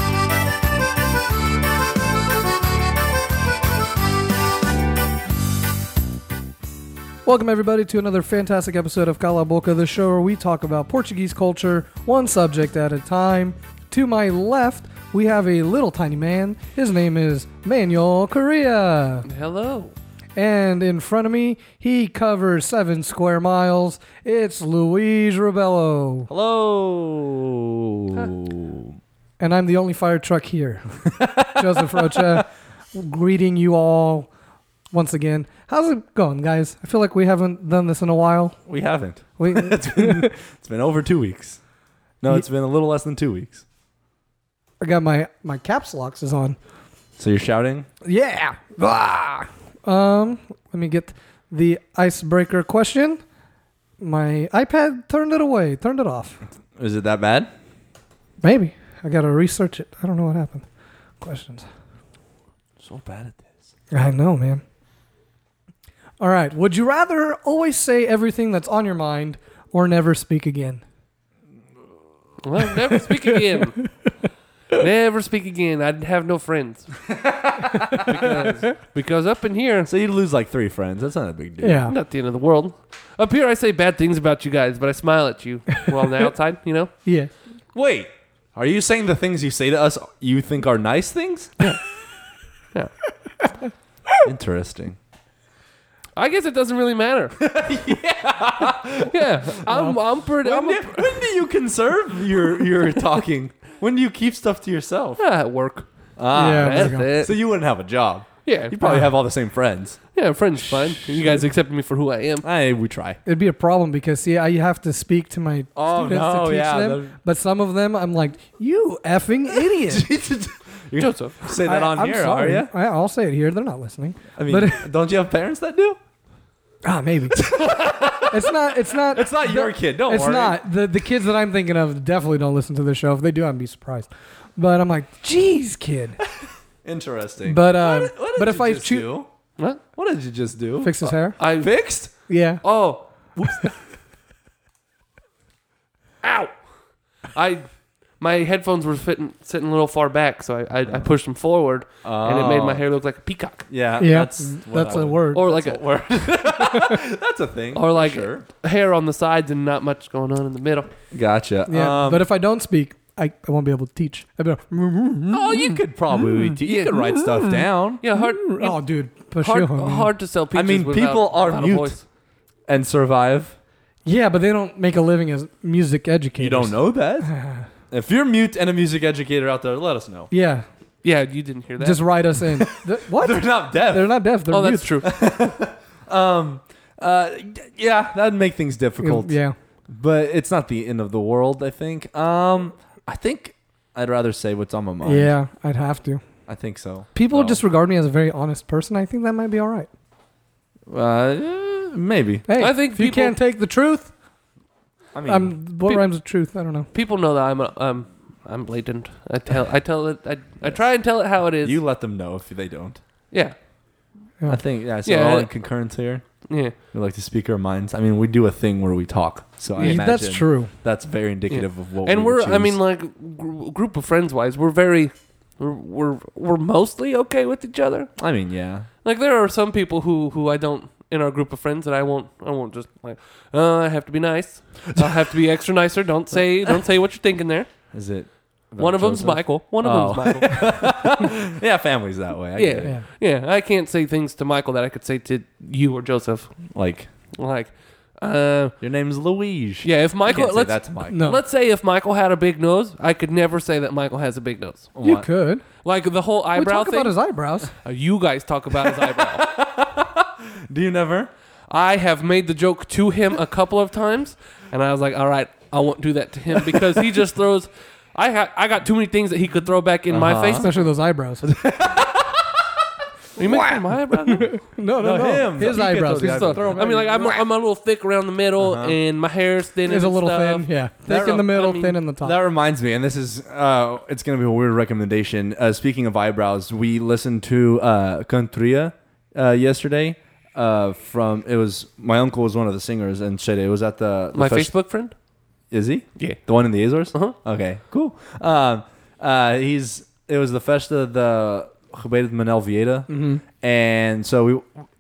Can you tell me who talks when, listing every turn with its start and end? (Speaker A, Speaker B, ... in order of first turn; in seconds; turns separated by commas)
Speaker A: 7.2-19.3, Speaker B: 19.2-19.9, Speaker A: 20.4-26.3, Speaker C: 26.3-29.0, Speaker A: 29.4-34.3, Speaker C: 31.1-32.4, Speaker A: 34.9-38.6, Speaker C: 38.7-41.6, Speaker A: 39.4-40.3, Speaker C: 42.2-43.6, Speaker A: 44.8-46.6, Speaker C: 47.2-47.9, Speaker A: 48.0-53.2, Speaker A: 54.0-56.4, Speaker C: 56.8-57.5, Speaker A: 58.4-60.7, Speaker A: 61.2-61.6, Speaker C: 62.8-63.6, Speaker A: 63.9-64.6, Speaker A: 66.2-70.8, Speaker B: 72.4-73.8, Speaker B: 74.7-77.0, Speaker C: 77.2-78.4, Speaker A: 77.9-78.5, Speaker B: 78.1-79.9, Speaker C: 79.9-81.9, Speaker A: 81.6-82.0, Speaker B: 81.9-86.9, Speaker A: 87.0-87.3, Speaker C: 87.7-91.5, Speaker C: 94.2-95.0, Speaker B: 96.2-97.3, Speaker C: 97.4-99.5, Speaker B: 99.1-101.2, Speaker A: 99.7-100.0, Speaker C: 100.4-105.2, Speaker B: 105.2-107.4, Speaker C: 106.2-110.0, Speaker A: 106.3-107.1, Speaker B: 108.5-108.8, Speaker A: 108.8-109.1, Speaker B: 110.1-112.5, Speaker C: 110.8-111.4, Speaker C: 112.4-113.2, Speaker A: 113.2-120.1, Speaker C: 115.8-117.1, Speaker C: 119.8-122.7, Speaker B: 121.0-121.4, Speaker A: 121.6-124.8, Speaker C: 124.3-126.0, Speaker A: 126.8-127.5, Speaker C: 127.4-128.5, Speaker A: 128.1-136.2, Speaker C: 129.1-130.6, Speaker C: 136.8-139.3, Speaker A: 137.4-139.1, Speaker C: 139.9-142.1, Speaker A: 140.8-141.4, Speaker B: 141.1-143.7, Speaker A: 142.3-142.6, Speaker B: 146.2-146.6, Speaker B: 147.3-147.7, Speaker B: 148.2-153.7, Speaker C: 152.0-152.8, Speaker C: 153.7-158.5, Speaker A: 154.0-155.4, Speaker B: 155.3-156.4, Speaker B: 157.7-160.9, Speaker C: 161.1-162.3, Speaker A: 161.7-166.4, Speaker C: 165.3-168.0, Speaker B: 166.6-168.8, Speaker A: 168.1-170.1, Speaker B: 169.4-172.0, Speaker C: 170.5-172.0, Speaker C: 172.7-173.6, Speaker A: 174.1-177.7, Speaker C: 176.4-177.3, Speaker C: 177.9-180.3, Speaker A: 180.3-180.7, Speaker B: 181.0-182.1, Speaker A: 181.8-185.0, Speaker C: 182.6-184.2, Speaker B: 184.5-185.1, Speaker C: 185.0-189.4, Speaker A: 189.0-189.6, Speaker C: 189.9-195.3, Speaker A: 195.0-196.2, Speaker C: 196.5-197.6, Speaker A: 197.2-199.9, Speaker C: 200.9-202.5, Speaker A: 202.5-204.1, Speaker B: 202.6-203.4, Speaker C: 205.1-205.5, Speaker A: 205.3-206.9, Speaker B: 206.9-211.8, Speaker C: 211.6-213.0, Speaker C: 214.5-216.3, Speaker B: 215.1-215.5, Speaker B: 216.5-216.8, Speaker C: 216.9-222.8, Speaker A: 219.8-220.7, Speaker B: 221.5-228.2, Speaker C: 228.2-228.9, Speaker B: 229.0-237.8, Speaker C: 237.9-242.9, Speaker B: 238.8-240.9, Speaker B: 242.6-246.6, Speaker C: 246.7-247.1, Speaker B: 247.3-248.7, Speaker C: 248.7-251.2, Speaker B: 249.8-254.9, Speaker A: 251.1-251.4, Speaker C: 254.9-255.3, Speaker A: 255.0-255.7, Speaker B: 255.8-257.2, Speaker A: 256.6-257.7, Speaker B: 257.7-259.5, Speaker C: 259.4-261.3, Speaker B: 261.7-270.7, Speaker C: 270.1-270.8, Speaker A: 270.6-271.4, Speaker C: 271.4-272.6, Speaker B: 273.4-274.6, Speaker C: 273.4-273.8, Speaker A: 274.3-276.8, Speaker C: 275.0-277.4, Speaker B: 275.9-282.0, Speaker C: 278.6-279.0, Speaker A: 279.9-282.4, Speaker C: 281.1-281.5, Speaker C: 282.2-294.8, Speaker B: 294.3-295.1, Speaker C: 295.7-304.8, Speaker B: 296.2-296.4, Speaker A: 303.1-303.4